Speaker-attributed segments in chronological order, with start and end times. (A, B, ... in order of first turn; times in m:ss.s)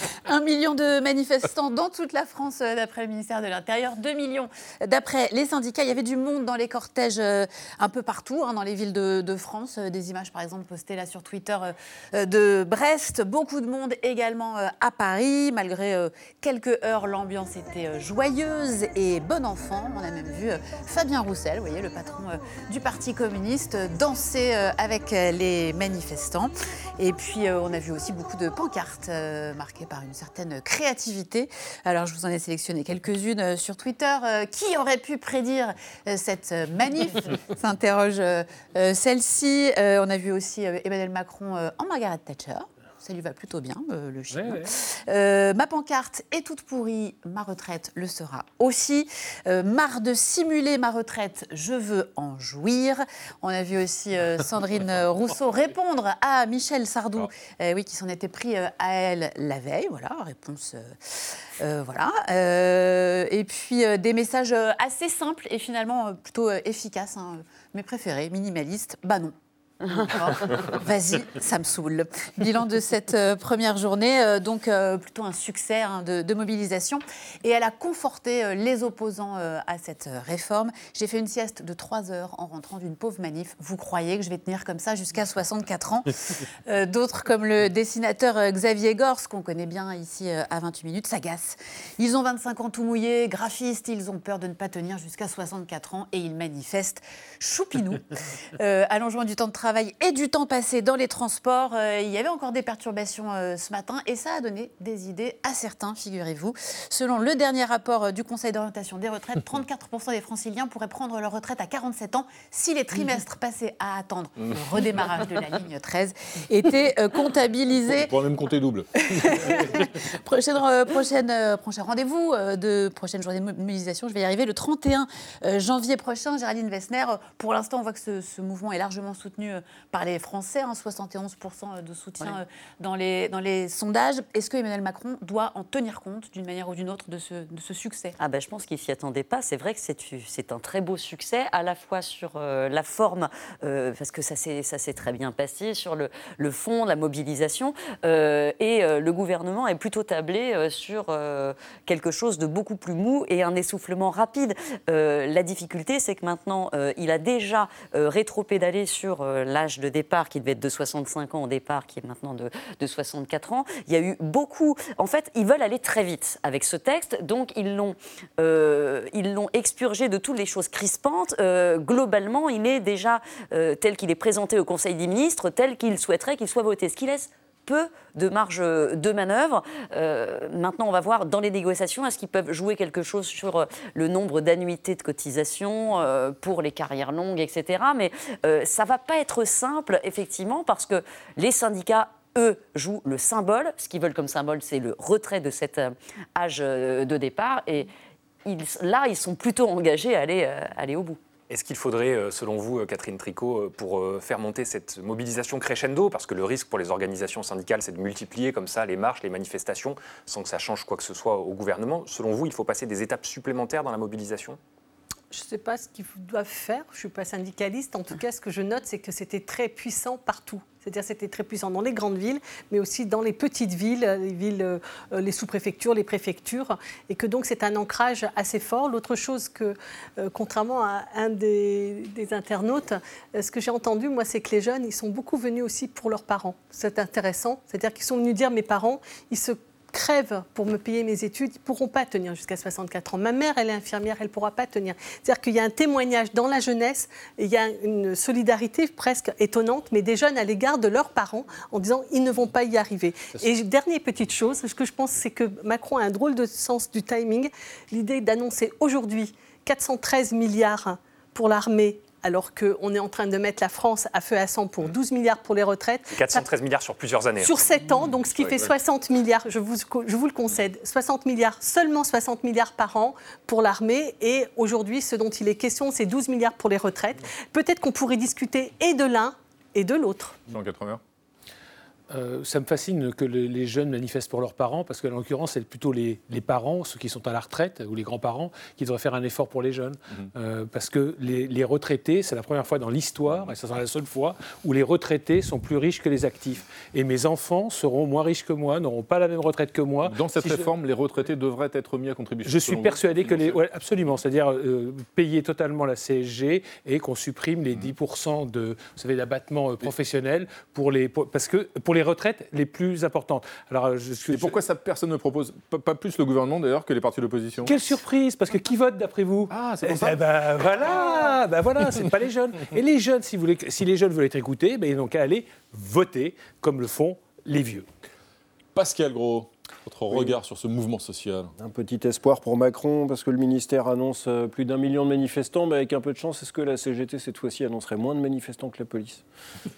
0:00.2-1:58.1 A
0:44.3-0:44.7 B
1:57.9-1:59.6 C
1:59.0-2:18.2 A
2:18.2-3:17.9 D
3:18.4-3:21.2 D
3:21.5-3:34.6 E
3:35.3-4:26.4 F
4:26.1-4:27.7 E
4:27.4-4:40.4 F
4:28.3-4:28.7 E
4:40.5-4:41.0 C
4:42.1-5:00.7 B
5:00.1-5:03.6 C
5:02.4-5:14.6 B
5:14.3-5:17.8 C
5:17.6-5:27.8 B
5:19.5-5:20.2 C
5:28.7-5:31.5 C
5:31.6-5:39.2 G